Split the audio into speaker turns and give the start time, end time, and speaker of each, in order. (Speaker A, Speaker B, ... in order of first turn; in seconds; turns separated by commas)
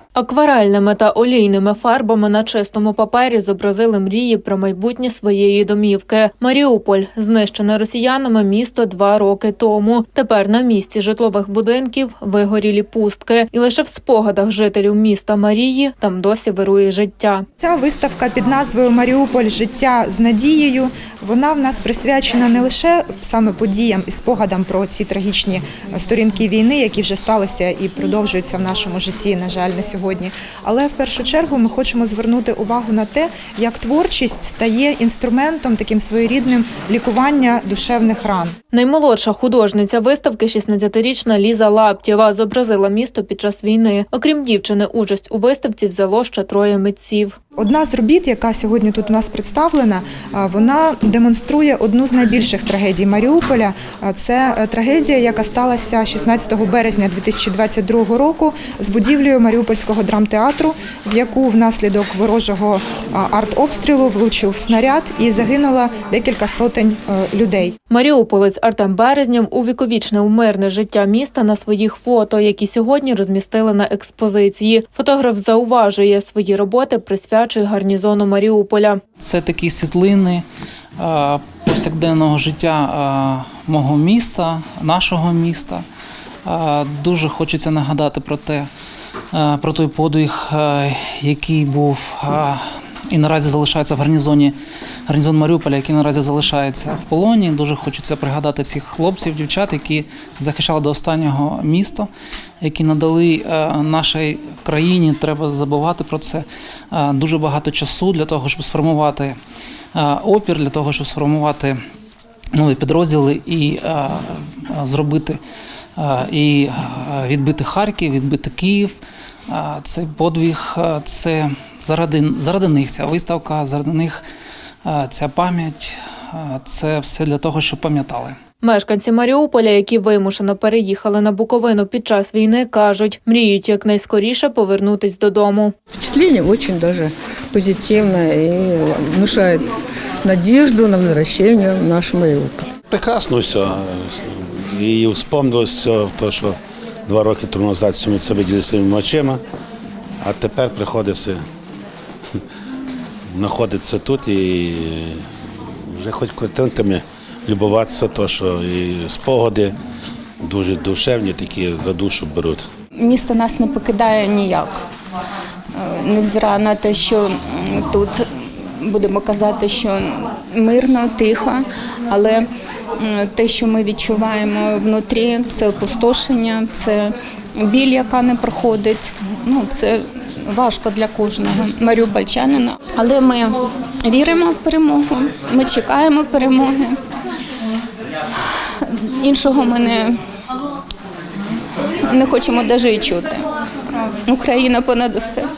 Speaker A: 0.1-17.4, Speaker B: 17.6-38.5, Speaker A: 38.7-47.4, Speaker B: 47.6-67.7, Speaker A: 67.9-79.0, Speaker C: 79.2-80.4, Speaker C: 81.0-85.8, Speaker C: 86.4-88.7, Speaker C: 89.3-94.5, Speaker C: 95.1-102.1, Speaker C: 102.6-109.3, Speaker C: 109.9-111.8, Speaker C: 112.5-115.4, Speaker C: 116.0-118.9, Speaker C: 119.5-124.2, Speaker C: 124.8-128.4, Speaker A: 128.6-135.7, Speaker D: 135.9-139.7, Speaker D: 140.2-142.7, Speaker E: 142.9-149.4, Speaker E: 150.2-151.4, Speaker E: 153.3-155.2, Speaker E: 155.9-159.7, Speaker E: 160.4-162.6, Speaker F: 163.0-164.8, Speaker F: 165.8-172.4, Speaker F: 173.0-187.0, Speaker F: 188.8-190.1, Speaker F: 192.0-193.5, Speaker F: 194.3-195.5